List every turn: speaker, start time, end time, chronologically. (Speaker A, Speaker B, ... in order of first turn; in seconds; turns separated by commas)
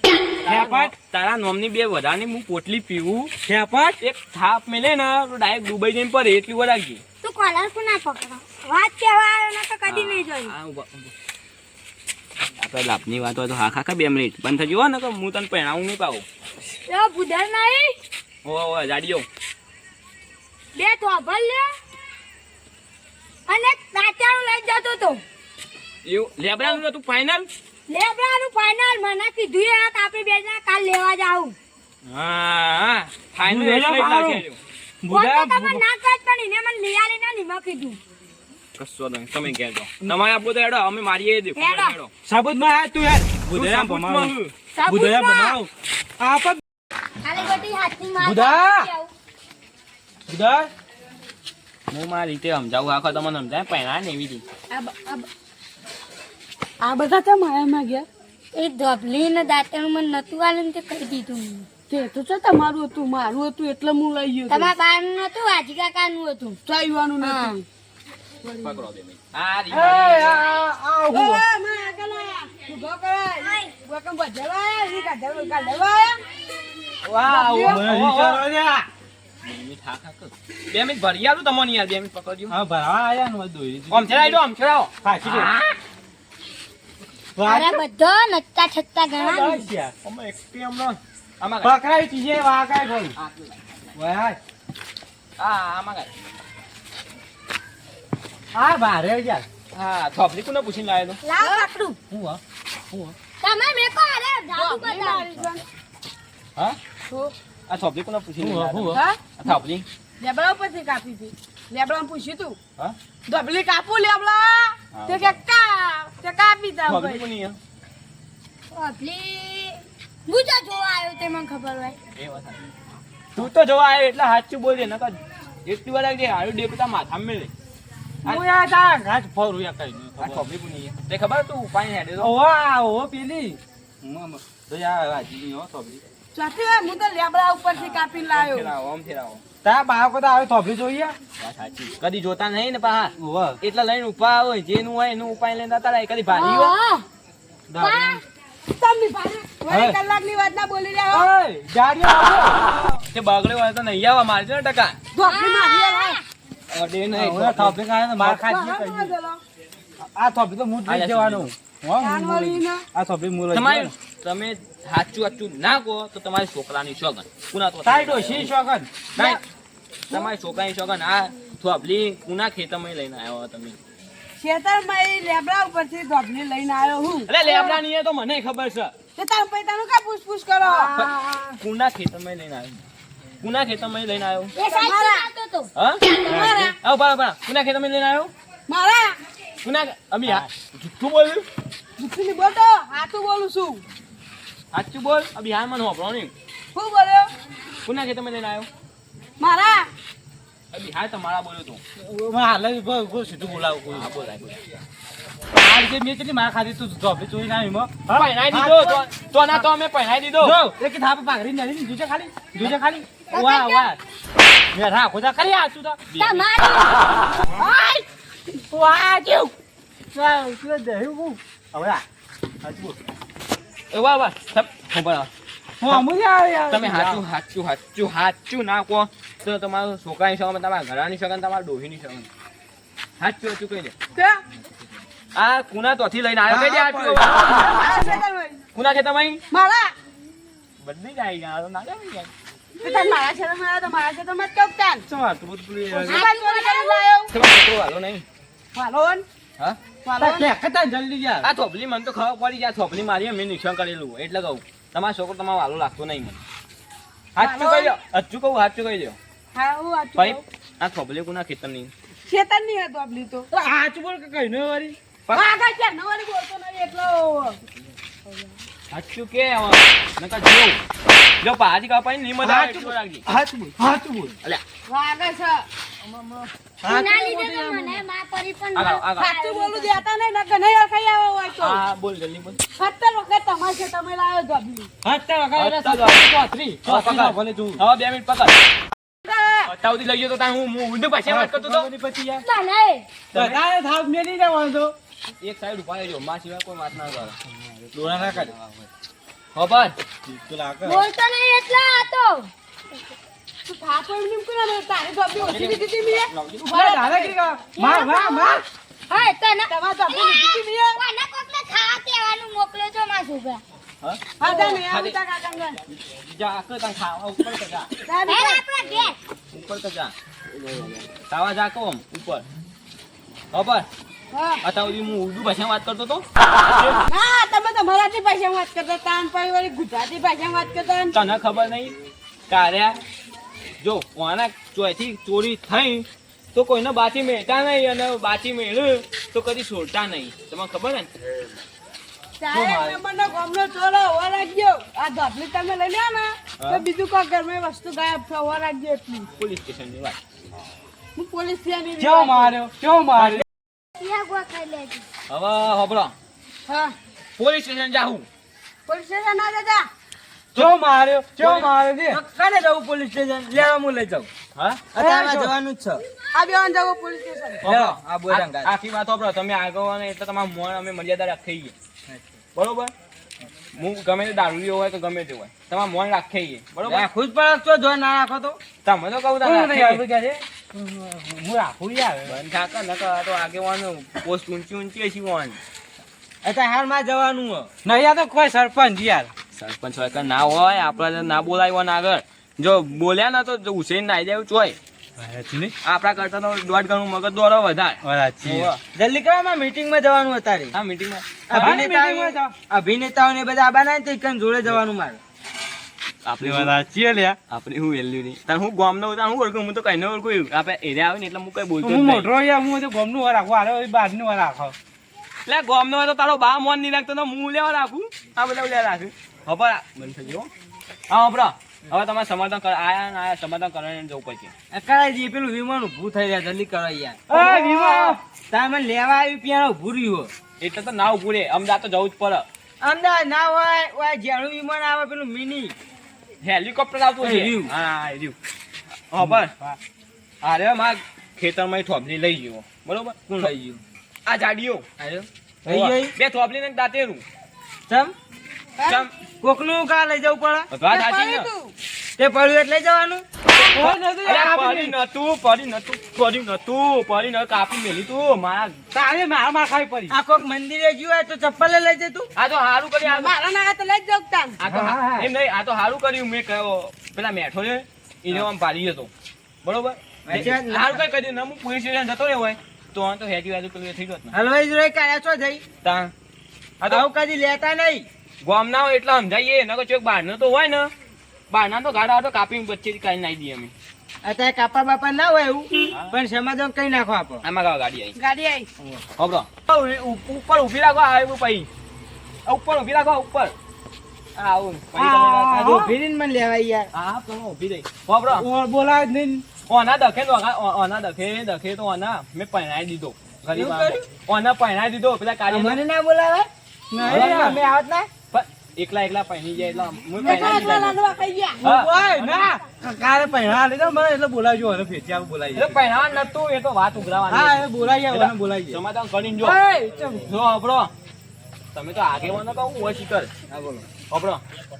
Speaker A: 0.4-3.3, Speaker B: 0.5-0.9, Speaker B: 3.4-4.0, Speaker A: 4.0-7.0, Speaker C: 7.2-10.5, Speaker A: 9.9-11.1, Speaker A: 12.6-16.2, Speaker C: 16.9-17.9, Speaker A: 18.4-19.3, Speaker C: 20.7-21.7, Speaker C: 23.5-25.2, Speaker A: 26.0-27.5, Speaker C: 27.9-31.5, Speaker A: 32.1-34.6, Speaker B: 33.4-34.4, Speaker B: 35.0-35.8, Speaker C: 35.1-38.0, Speaker A: 38.8-42.1, Speaker C: 41.5-42.0, Speaker B: 42.2-44.3, Speaker A: 43.5-44.5, Speaker C: 44.7-45.6, Speaker B: 44.8-46.6, Speaker C: 47.2-49.1, Speaker A: 47.4-47.6, Speaker B: 48.2-48.9, Speaker B: 50.3-50.7, Speaker A: 51.9-54.4, Speaker D: 54.7-55.3, Speaker D: 56.8-58.1, Speaker C: 58.5-61.7, Speaker D: 61.9-64.7, Speaker C: 64.5-66.6, Speaker D: 66.7-67.6, Speaker C: 67.2-67.5, Speaker D: 68.4-68.8, Speaker A: 68.6-70.4, Speaker B: 69.7-71.4, Speaker D: 71.1-76.2, Speaker C: 73.4-73.7, Speaker A: 77.0-78.4, Speaker D: 77.2-77.8, Speaker B: 77.6-78.9, Speaker A: 79.4-82.5, Speaker B: 82.5-84.4, Speaker A: 83.9-85.7, Speaker B: 85.0-85.5, Speaker B: 87.3-87.8, Speaker C: 87.4-89.6, Speaker B: 89.2-89.9, Speaker A: 90.0-91.8, Speaker B: 91.6-93.2, Speaker A: 93.2-94.0, Speaker B: 93.9-94.4, Speaker A: 95.4-96.1, Speaker B: 98.5-99.5, Speaker A: 99.7-101.2, Speaker C: 101.2-102.0, Speaker D: 101.4-101.7, Speaker B: 102.1-102.4, Speaker C: 103.4-105.3, Speaker D: 104.5-105.6, Speaker A: 107.7-109.8, Speaker B: 108.4-109.0, Speaker D: 108.9-109.2, Speaker D: 110.2-112.6, Speaker D: 113.3-117.2, Speaker A: 114.9-115.4, Speaker A: 116.8-117.6, Speaker C: 118.7-122.0, Speaker A: 122.2-122.6, Speaker A: 123.3-127.5, Speaker B: 128.2-130.4, Speaker A: 130.2-132.3, Speaker B: 132.2-136.0, Speaker D: 136.3-138.7, Speaker A: 137.7-139.4, Speaker B: 139.6-141.2, Speaker A: 141.4-146.7, Speaker B: 143.2-143.6, Speaker C: 146.3-147.0, Speaker B: 147.7-148.2, Speaker C: 147.7-148.2, Speaker D: 148.7-151.2, Speaker B: 149.7-150.0, Speaker B: 151.1-152.7, Speaker A: 153.1-155.0, Speaker D: 155.1-156.2, Speaker C: 155.2-156.2, Speaker A: 156.7-157.8, Speaker B: 157.1-159.1, Speaker D: 158.2-159.4, Speaker B: 160.0-163.9, Speaker A: 160.9-161.5, Speaker D: 162.0-162.8, Speaker A: 163.5-168.5, Speaker B: 167.8-168.9, Speaker A: 169.1-169.4, Speaker A: 170.1-173.8, Speaker D: 174.4-177.8, Speaker A: 177.3-178.9, Speaker D: 179.2-181.6, Speaker A: 180.9-182.8, Speaker A: 183.4-184.5, Speaker C: 184.5-186.5, Speaker D: 184.6-185.3, Speaker A: 185.7-186.0, Speaker D: 186.2-186.7, Speaker B: 186.3-186.7, Speaker A: 186.6-188.3, Speaker D: 188.7-189.2, Speaker A: 189.6-191.4, Speaker D: 192.0-193.8, Speaker A: 194.7-196.3, Speaker D: 196.7-197.3, Speaker A: 197.8-198.7, Speaker D: 199.4-199.9, Speaker A: 200.7-201.8, Speaker B: 202.0-204.1, Speaker A: 203.9-204.6, Speaker B: 205.5-209.0, Speaker A: 208.1-210.6, Speaker B: 210.4-214.0, Speaker C: 213.3-213.9, Speaker B: 214.7-216.0, Speaker A: 216.1-216.5, Speaker C: 216.1-217.0, Speaker D: 217.6-218.0, Speaker B: 218.7-219.5, Speaker B: 220.1-222.0, Speaker B: 222.6-223.0, Speaker A: 223.9-225.3, Speaker B: 225.8-227.2, Speaker A: 226.7-232.3, Speaker A: 233.2-233.9, Speaker D: 234.1-234.4, Speaker A: 235.3-237.7, Speaker B: 236.5-238.1, Speaker D: 237.4-238.6, Speaker A: 238.7-239.4, Speaker D: 239.5-239.9, Speaker A: 240.8-242.3, Speaker D: 242.8-245.1, Speaker B: 245.1-246.3, Speaker D: 245.9-247.3, Speaker C: 246.1-247.1, Speaker A: 247.3-248.2, Speaker D: 248.7-249.2, Speaker D: 250.0-250.5, Speaker B: 250.2-251.5, Speaker A: 251.4-256.4, Speaker A: 257.4-259.2, Speaker D: 257.4-257.9, Speaker D: 259.5-260.4, Speaker A: 260.1-261.9, Speaker D: 262.2-263.5, Speaker B: 263.5-265.0, Speaker D: 265.3-267.6, Speaker A: 268.9-270.8, Speaker A: 271.4-273.2, Speaker B: 272.4-274.3, Speaker D: 274.9-275.6, Speaker A: 276.0-276.5, Speaker B: 276.8-278.0, Speaker C: 276.8-280.0, Speaker A: 278.7-279.3, Speaker D: 279.2-281.8, Speaker A: 281.6-282.6, Speaker D: 282.8-284.9, Speaker B: 285.0-287.8, Speaker A: 285.6-286.3, Speaker A: 286.8-288.6, Speaker D: 289.2-289.7, Speaker A: 289.6-291.9, Speaker B: 291.2-292.4, Speaker C: 292.4-293.1, Speaker A: 293.3-293.6, Speaker B: 293.3-294.9, Speaker A: 295.4-297.4, Speaker B: 297.6-298.5, Speaker A: 299.5-299.9, Speaker B: 300.2-301.1, Speaker C: 300.8-302.5, Speaker D: 303.6-307.3, Speaker A: 305.4-307.0, Speaker B: 306.7-308.6, Speaker C: 307.8-313.6, Speaker D: 309.7-311.0, Speaker A: 314.0-315.2, Speaker D: 314.4-315.8, Speaker A: 315.9-317.9, Speaker D: 318.1-318.6, Speaker C: 318.2-319.1, Speaker A: 319.5-320.1, Speaker A: 320.7-322.4, Speaker A: 323.5-323.9, Speaker D: 324.3-324.6, Speaker A: 324.6-326.2, Speaker A: 326.8-327.0, Speaker D: 327.1-331.1, Speaker A: 331.1-331.9, Speaker A: 332.5-333.0, Speaker A: 333.8-341.1, Speaker D: 342.4-349.3, Speaker A: 346.6-346.8, Speaker A: 349.4-350.2, Speaker D: 351.1-352.5, Speaker B: 352.0-353.4, Speaker C: 354.0-355.0, Speaker A: 355.3-356.1, Speaker D: 356.7-356.9, Speaker A: 357.4-358.2, Speaker D: 358.9-359.9, Speaker B: 360.5-362.2, Speaker E: 361.4-364.3, Speaker A: 364.5-364.9, Speaker E: 364.9-366.0, Speaker B: 365.0-365.5, Speaker D: 366.3-367.6, Speaker A: 367.6-371.7, Speaker E: 367.6-368.7, Speaker A: 372.5-372.9, Speaker A: 373.7-377.1, Speaker E: 376.8-378.6, Speaker A: 378.8-380.0, Speaker B: 379.4-382.4, Speaker A: 382.2-385.6, Speaker E: 386.4-387.7, Speaker B: 387.8-389.3, Speaker A: 389.5-394.8, Speaker B: 395.2-395.7, Speaker A: 395.8-398.8, Speaker B: 398.0-398.7, Speaker E: 398.9-400.7, Speaker A: 400.7-401.8, Speaker E: 401.5-405.2, Speaker B: 401.5-402.5, Speaker A: 406.2-406.7, Speaker B: 406.4-407.4, Speaker A: 407.5-412.3, Speaker B: 411.8-414.8, Speaker A: 415.4-420.5, Speaker A: 421.1-424.5, Speaker E: 424.7-430.3, Speaker B: 427.3-428.2, Speaker A: 430.6-432.4, Speaker E: 432.8-435.7, Speaker A: 436.4-438.4, Speaker E: 437.2-437.7, Speaker A: 439.1-439.5, Speaker A: 440.4-443.5, Speaker E: 443.4-443.8, Speaker A: 444.2-447.2, Speaker E: 445.6-446.1, Speaker E: 447.9-448.1, Speaker D: 448.8-449.1, Speaker A: 448.9-449.1, Speaker E: 449.4-450.7, Speaker A: 450.7-451.5, Speaker D: 450.9-451.7, Speaker E: 452.2-453.2, Speaker A: 453.6-458.8, Speaker B: 453.7-454.9, Speaker B: 458.9-460.1, Speaker E: 460.1-462.3, Speaker A: 462.4-463.3, Speaker D: 463.0-464.6, Speaker A: 464.6-469.1, Speaker B: 464.6-465.3, Speaker A: 469.6-474.3, Speaker E: 470.2-471.0, Speaker E: 474.3-475.6, Speaker A: 475.8-476.1, Speaker A: 476.8-477.1, Speaker E: 476.9-478.1, Speaker A: 478.4-480.9, Speaker A: 481.5-483.7, Speaker E: 484.2-487.4, Speaker A: 485.9-486.2, Speaker A: 487.4-488.1, Speaker D: 488.1-488.7, Speaker A: 489.2-491.7, Speaker A: 492.5-493.5, Speaker A: 494.4-495.9, Speaker E: 495.0-496.9, Speaker B: 495.5-495.9, Speaker A: 496.9-498.4, Speaker B: 498.3-499.4, Speaker A: 499.7-505.8, Speaker E: 503.5-504.0, Speaker E: 505.5-508.1, Speaker B: 506.9-507.6, Speaker A: 507.0-507.6, Speaker A: 508.3-511.0, Speaker D: 510.2-511.6, Speaker A: 511.6-512.3, Speaker E: 511.6-512.5, Speaker B: 511.6-515.8, Speaker A: 515.5-519.6, Speaker B: 517.3-518.8, Speaker B: 519.4-520.2, Speaker A: 520.2-520.9, Speaker A: 521.7-523.3, Speaker E: 523.5-523.8, Speaker A: 524.1-524.4